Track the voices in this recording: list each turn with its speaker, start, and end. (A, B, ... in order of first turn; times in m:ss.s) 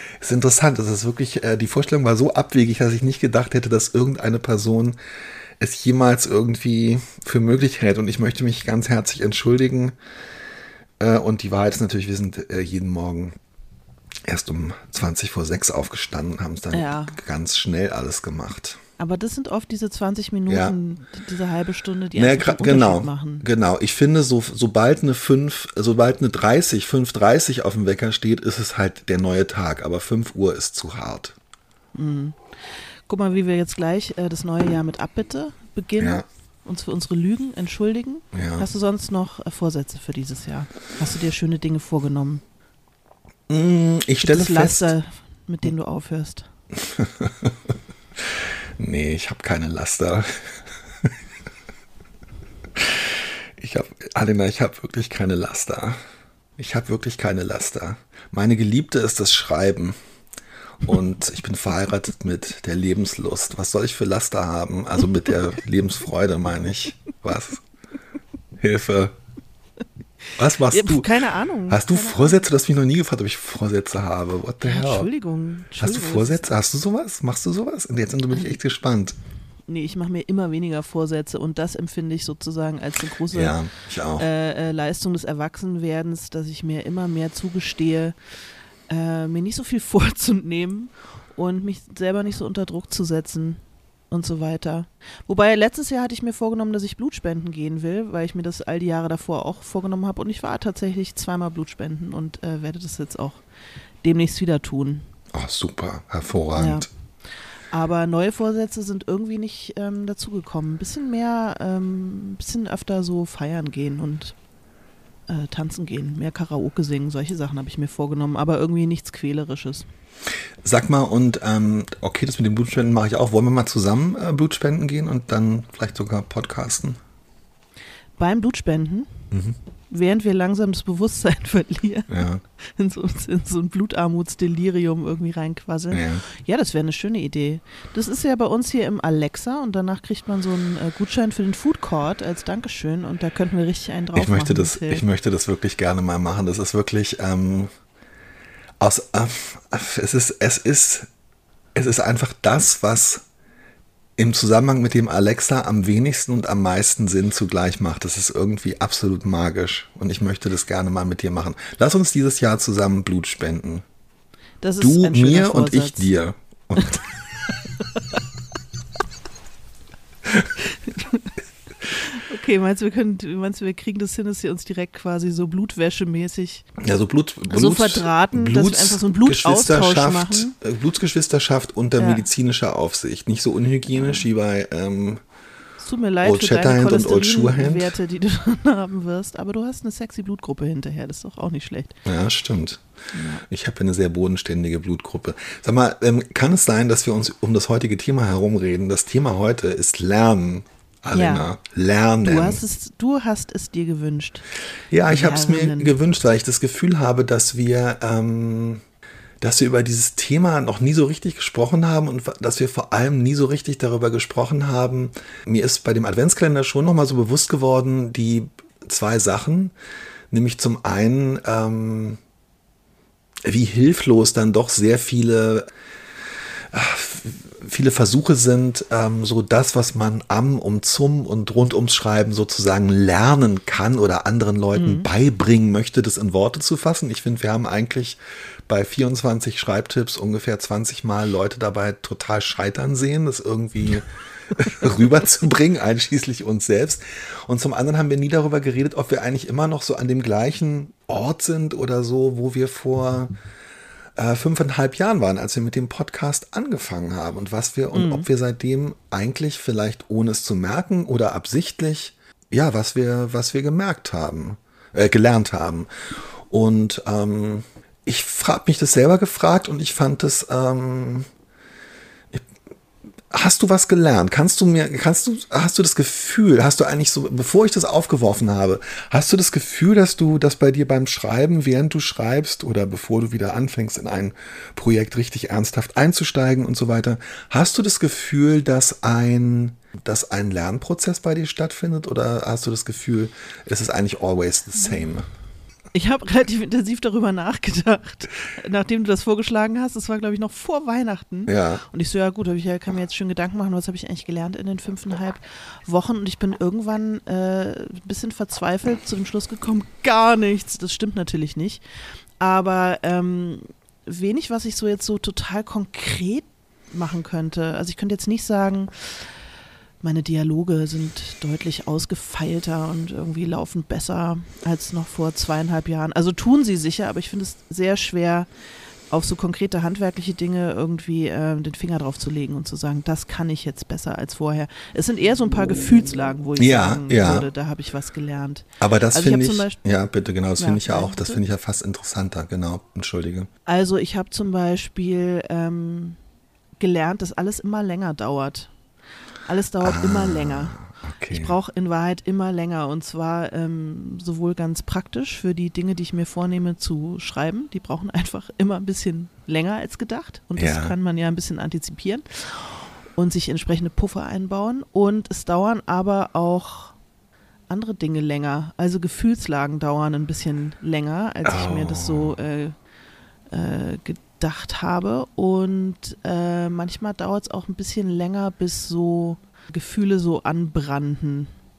0:00.2-0:05.0 A
0:05.6-0:09.9 A
0:11.0-0:13.3 A
0:14.3-0:18.8 A
0:16.7-0:17.2 B
0:19.0-0:23.4 B
0:20.5-0:20.7 A
0:22.1-0:31.3 A
0:31.9-0:32.4 B
0:33.1-0:42.4 B
0:36.0-0:36.2 A
0:38.3-0:38.6 A
0:43.5-0:44.9 A
0:44.2-0:46.5 B
0:46.8-0:51.1 A
0:52.8-0:56.0 A
0:56.6-1:00.0 A
1:00.8-1:07.6 A
1:08.6-1:09.1 A
1:10.4-1:11.1 A
1:10.6-1:12.4 B
1:11.7-1:15.1 A
1:14.6-1:16.5 B
1:15.8-1:19.2 A
1:19.7-1:23.6 B
1:23.3-1:24.3 A
1:24.2-1:28.2 B
1:28.9-1:43.4 B
1:44.0-1:45.0 B
1:45.3-1:46.9 A
1:46.6-1:46.9 B
1:47.7-1:54.3 B
1:55.3-1:59.9 B
2:00.6-2:07.0 A
2:08.2-2:09.1 B
2:09.3-2:09.6 A
2:09.9-2:25.0 B
2:12.1-2:12.4 A
2:15.9-2:16.2 A
2:24.1-2:27.7 A
2:28.8-2:31.1 A
2:31.7-2:33.2 A
2:34.2-2:43.8 A
2:44.6-2:46.1 B
2:44.8-2:47.0 A
2:50.7-2:51.3 B
2:51.9-2:56.6 B
2:56.8-3:05.2 A
2:57.5-3:00.5 B
3:02.0-3:02.2 B
3:05.8-3:12.0 B
3:06.2-3:07.9 A
3:12.0-3:12.8 A
3:13.1-3:13.4 B
3:13.4-3:22.6 A
3:21.1-3:21.5 B
3:22.2-3:24.4 B
3:24.9-3:28.8 A
3:25.1-3:25.9 B
3:29.4-3:39.7 A
3:40.3-3:42.2 A
3:43.4-3:45.7 A
3:46.7-4:13.3 A
3:54.7-3:55.1 B
4:14.2-4:25.9 A
4:17.9-4:18.3 B
4:26.5-4:31.3 A
4:33.3-4:55.2 A
4:55.9-5:11.8 B
5:01.5-5:01.8 A
5:12.4-5:19.2 B
5:20.0-5:28.5 B
5:29.1-5:39.8 B
5:36.6-5:37.5 A
5:38.8-5:43.5 A
5:40.6-5:41.4 B
5:43.6-5:46.2 B
5:46.8-5:48.7 B
5:49.4-5:50.8 B
5:49.8-5:51.6 A
5:51.3-6:07.0 B
6:00.6-6:01.0 A
6:07.7-6:12.7 B
6:11.4-6:12.4 A
6:13.5-6:21.5 B